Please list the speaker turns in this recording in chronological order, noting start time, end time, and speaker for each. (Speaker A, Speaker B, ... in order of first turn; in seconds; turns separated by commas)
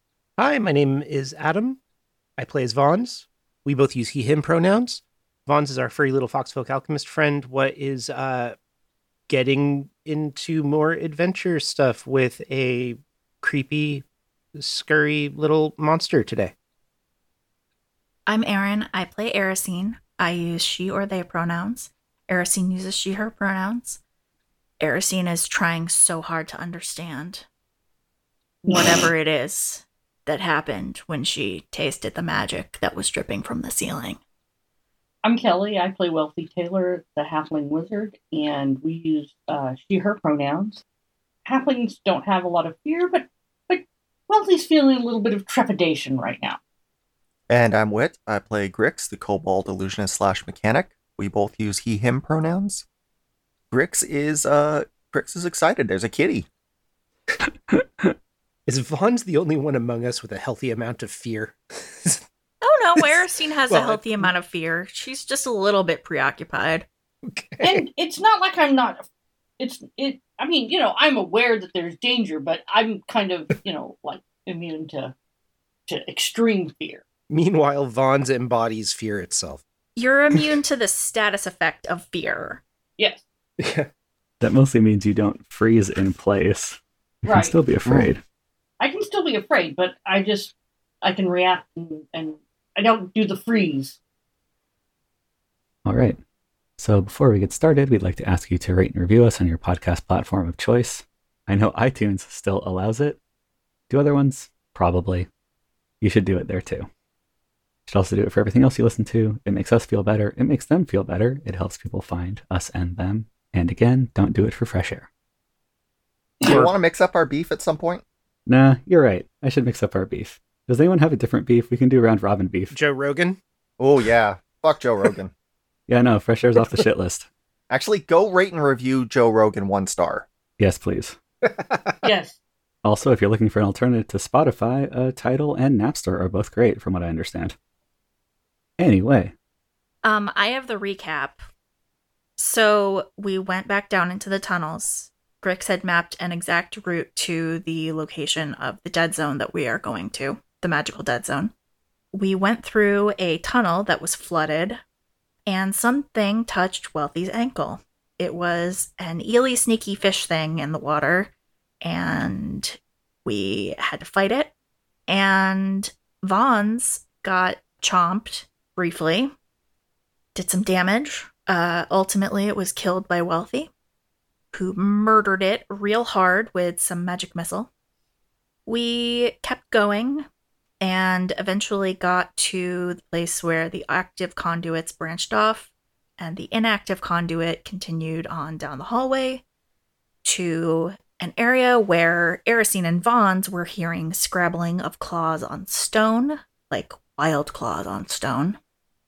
Speaker A: 0.4-1.8, Speaker A: 2.4-8.5, Speaker A: 9.3-14.0, Speaker A: 14.6-16.5, Speaker B: 18.3-24.0, Speaker B: 24.8-27.4, Speaker C: 28.6-29.1, Speaker B: 28.7-34.2, Speaker C: 35.2-40.8, Speaker C: 41.5-46.6, Speaker D: 47.5-52.8, Speaker D: 53.7-56.5, Speaker E: 57.5-58.1, Speaker A: 58.6-62.2, Speaker B: 62.6-66.8, Speaker A: 63.0-64.3, Speaker A: 67.4-67.8, Speaker C: 67.6-69.0, Speaker C: 69.6-75.1, Speaker C: 75.9-77.0, Speaker A: 77.3-79.6, Speaker B: 80.0-82.6, Speaker A: 83.6-83.9, Speaker E: 84.4-88.2, Speaker C: 87.2-87.5, Speaker C: 88.8-94.0, Speaker E: 95.8-96.2, Speaker E: 96.8-103.2, Speaker E: 103.9-105.3, Speaker E: 106.0-106.9, Speaker E: 107.9-115.1, Speaker A: 116.4-116.7, Speaker D: 116.4-118.0, Speaker E: 118.5-122.8, Speaker A: 122.7-123.4, Speaker D: 123.8-125.3, Speaker E: 125.9-127.3, Speaker D: 127.7-130.2, Speaker E: 130.6-131.2, Speaker A: 131.4-131.9, Speaker C: 132.0-132.4, Speaker E: 132.8-137.6, Speaker E: 138.8-139.3, Speaker B: 140.0-141.4, Speaker B: 142.4-151.5, Speaker B: 152.1-154.8, Speaker B: 155.5-164.5, Speaker B: 165.1-169.3, Speaker B: 170.3-173.7, Speaker B: 174.5-177.7, Speaker B: 178.7-180.3, Speaker B: 180.8-189.4, Speaker B: 190.2-198.6